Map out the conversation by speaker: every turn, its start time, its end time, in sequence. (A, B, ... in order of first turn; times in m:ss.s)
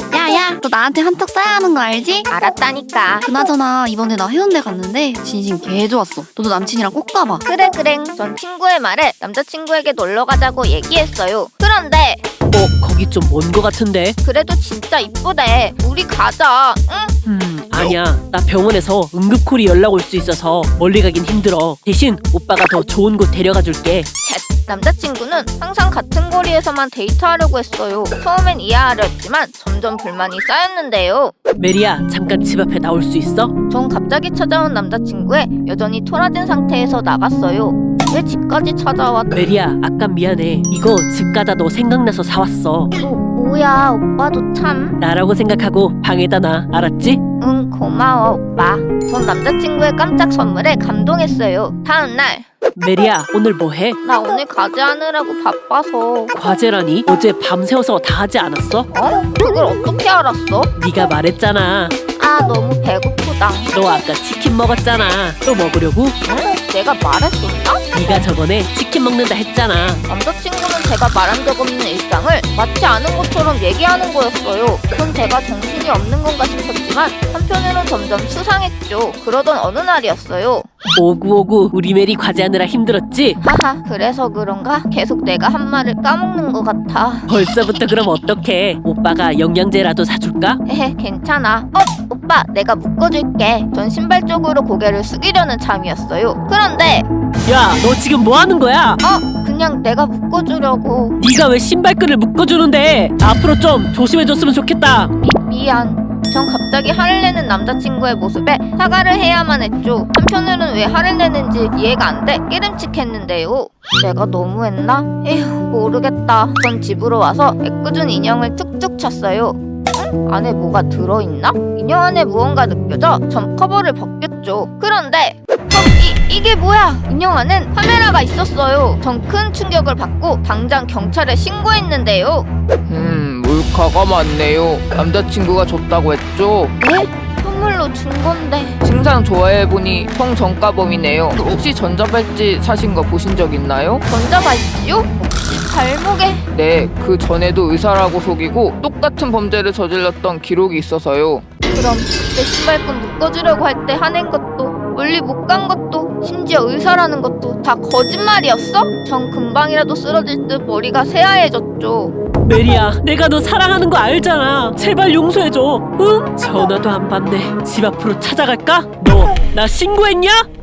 0:00.1-0:02.3 A
0:02.3-0:03.3 B
0:03.2-0:07.4 A
0:07.4-0:12.2 B
0:12.4-0:14.2 C
0:14.2-0:17.1 B
0:17.3-0:24.1 C
0:24.2-0:31.3 B
0:31.6-0:33.5 C
0:33.7-0:39.3 B
0:39.3-0:42.9 C
0:43.0-0:45.0 B
0:45.0-0:47.2 C
0:47.4-0:52.4 B
0:52.8-0:54.0 C
0:54.0-0:56.3 B
0:56.3-0:58.9 C
0:58.9-1:00.7 B
1:00.8-1:01.9 C
1:02.2-1:03.7 B
1:03.7-1:06.2 C
1:06.2-1:07.9 B
1:07.9-1:10.0 C
1:10.1-1:20.6 B
1:20.9-1:23.4 C
1:23.4-1:27.3 B
1:27.3-1:30.6 C
1:30.6-1:37.1 B
1:37.4-1:39.0 C
1:39.0-1:41.2 B
1:41.2-1:45.1 C
1:45.2-2:12.5 B
2:12.9-2:16.8 D
2:16.8-2:18.8 B
2:18.8-2:24.1 D
2:24.1-2:26.4 B
2:26.5-2:31.5 D
2:31.7-2:42.1 B
2:42.4-2:50.5 C